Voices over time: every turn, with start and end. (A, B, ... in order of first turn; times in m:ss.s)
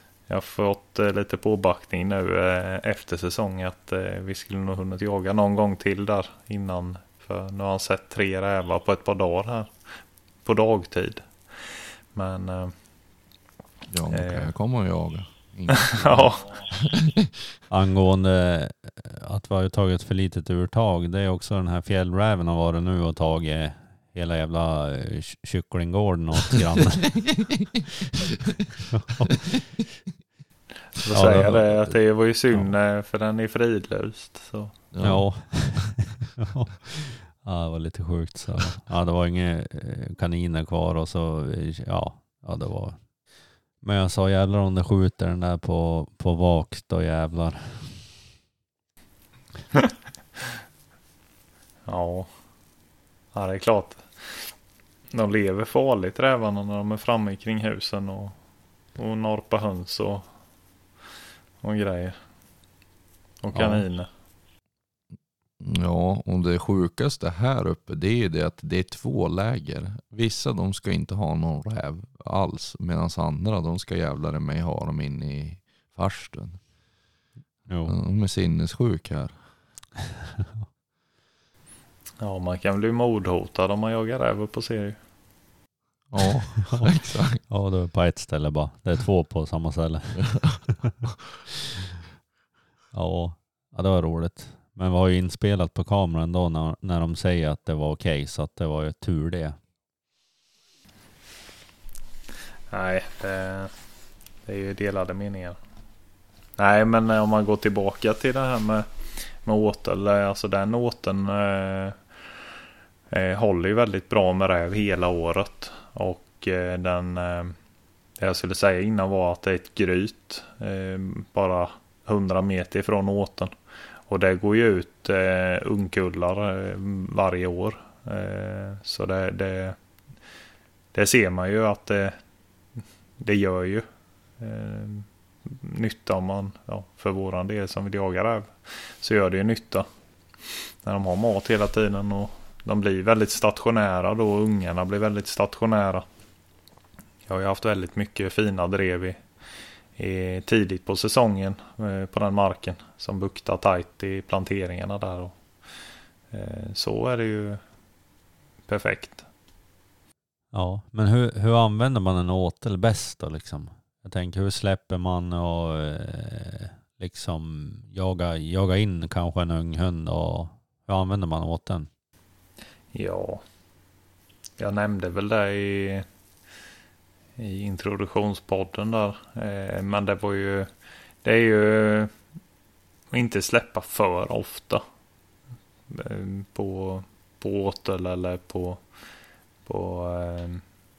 0:00.3-0:09.8 A
0:10.4-0:12.7 A
0:13.9-0:17.3 B
0:14.1-0:14.5 A
0:15.7-0:16.6 A
0:17.7-0:27.3 C
0:28.9-0:29.3 C
0:31.0-0:34.7 A
0:31.1-0:31.8 B
0:31.1-0:32.0 C
0:34.9-0:35.9 B
0:35.0-0:48.1 C
0:51.8-0:52.3 A
0:53.3-0:54.5 A
0:55.1-0:58.4 A
0:59.0-1:00.3 A
1:01.6-1:02.2 A
1:03.4-1:04.1 A
1:03.5-1:03.8 C
1:05.6-1:16.6 B
1:17.7-1:17.9 C
1:17.8-1:19.4 B
1:22.2-1:25.0 A
1:26.1-1:27.4 B
1:27.4-1:30.6 C
1:32.9-1:39.6 C
1:42.7-1:43.7 A
1:44.4-1:45.6 A
1:46.6-1:52.0 A
1:53.1-1:57.6 A
1:58.2-2:03.5 A
2:04.1-2:09.8 A
2:10.9-2:12.2 A
2:13.2-2:13.8 A
2:14.4-2:19.9 A
2:20.4-2:26.0 A
2:27.3-2:29.2 A
2:30.0-2:35.4 A
2:36.3-2:37.6 A
2:38.7-2:39.2 A
2:40.5-2:51.9 C
2:52.9-2:53.4 A
2:54.6-2:56.0 A
2:57.4-3:00.7 A
3:01.2-3:02.1 A
3:03.1-3:04.8 A
3:05.9-3:08.8 A
3:09.6-3:10.6 A